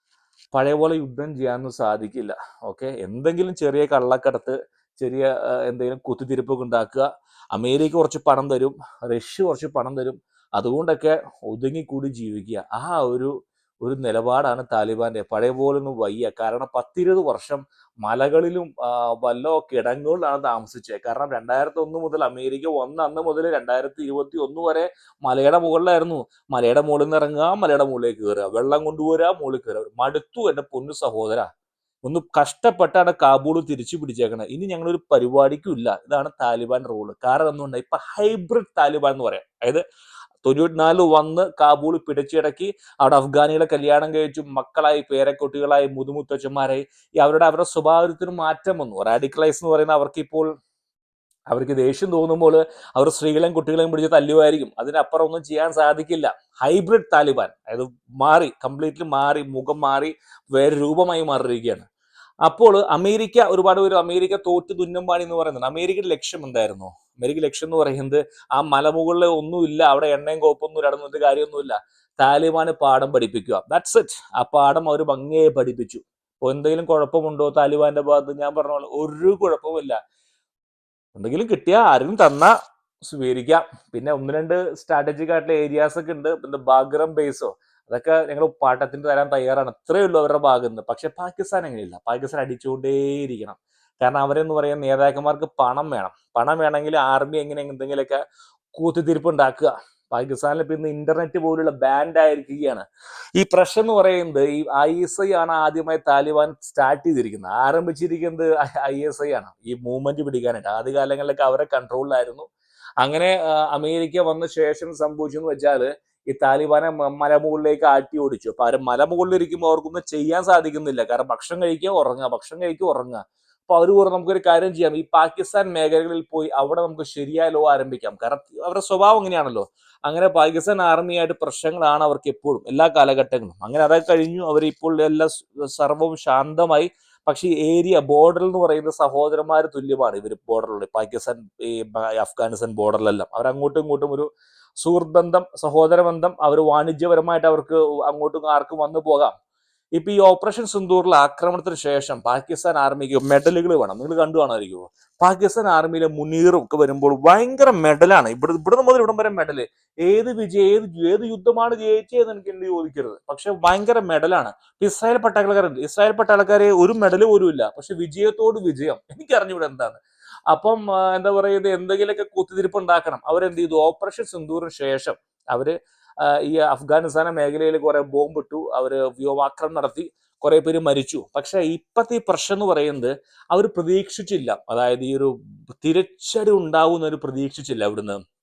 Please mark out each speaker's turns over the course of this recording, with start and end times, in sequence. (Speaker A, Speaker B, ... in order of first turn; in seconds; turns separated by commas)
Speaker A: 0.5-31.5, Speaker A: 32.0-39.8, Speaker A: 40.4-50.5, Speaker A: 51.5-61.9, Speaker A: 62.4-80.0, Speaker A: 81.1-82.5, Speaker A: 83.0-98.2, Speaker A: 98.7-102.8, Speaker A: 103.3-112.5, Speaker A: 113.0-144.3, Speaker A: 144.8-149.3, Speaker A: 149.9-188.2